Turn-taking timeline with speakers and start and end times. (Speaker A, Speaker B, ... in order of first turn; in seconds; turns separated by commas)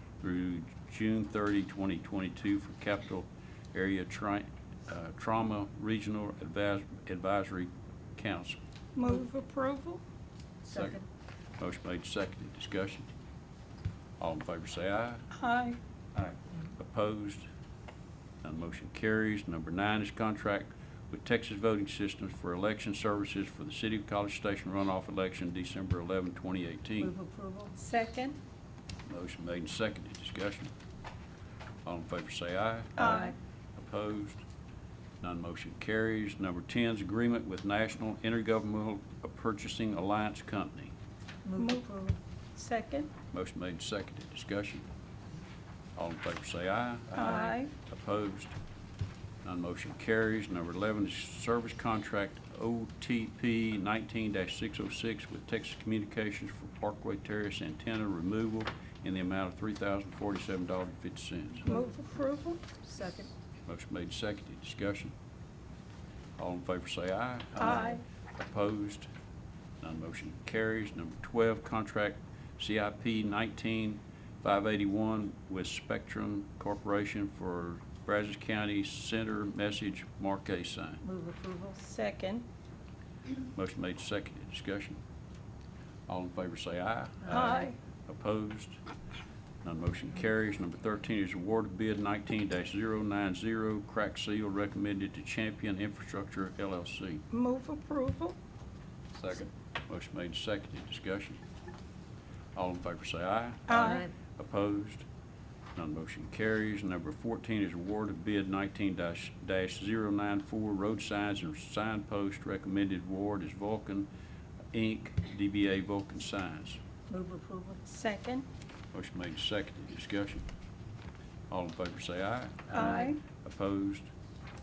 Speaker A: 0.2-8.6, Speaker B: 9.0-10.0, Speaker C: 10.7-11.0, Speaker A: 10.7-11.0, Speaker A: 11.6-13.1, Speaker A: 14.2-15.3, Speaker B: 15.3-15.8, Speaker A: 16.8-17.5, Speaker A: 18.4-27.1, Speaker C: 27.0-27.7, Speaker B: 27.8-28.4, Speaker A: 29.1-30.7, Speaker A: 31.9-34.4, Speaker B: 33.0-33.4, Speaker A: 35.2-40.9, Speaker C: 41.4-41.8, Speaker B: 41.5-43.1, Speaker A: 43.3-44.9, Speaker A: 46.0-48.6, Speaker B: 47.1-47.7, Speaker A: 49.4-61.7, Speaker B: 61.7-62.8, Speaker C: 62.9-63.2, Speaker A: 63.7-65.2, Speaker A: 66.4-69.1, Speaker B: 67.6-68.0, Speaker A: 69.8-81.0, Speaker C: 81.0-81.8, Speaker B: 81.8-82.5, Speaker A: 83.5-85.0, Speaker A: 86.1-88.8, Speaker B: 87.3-87.8, Speaker A: 89.6-97.2, Speaker B: 97.3-98.4, Speaker A: 99.1-101.4, Speaker A: 102.5-105.1, Speaker B: 103.7-104.1, Speaker A: 105.8-114.1, Speaker A: 114.7-116.8, Speaker C: 117.1-117.7, Speaker B: 117.9-118.5, Speaker A: 118.9-120.5, Speaker A: 121.5-124.1, Speaker B: 122.7-123.2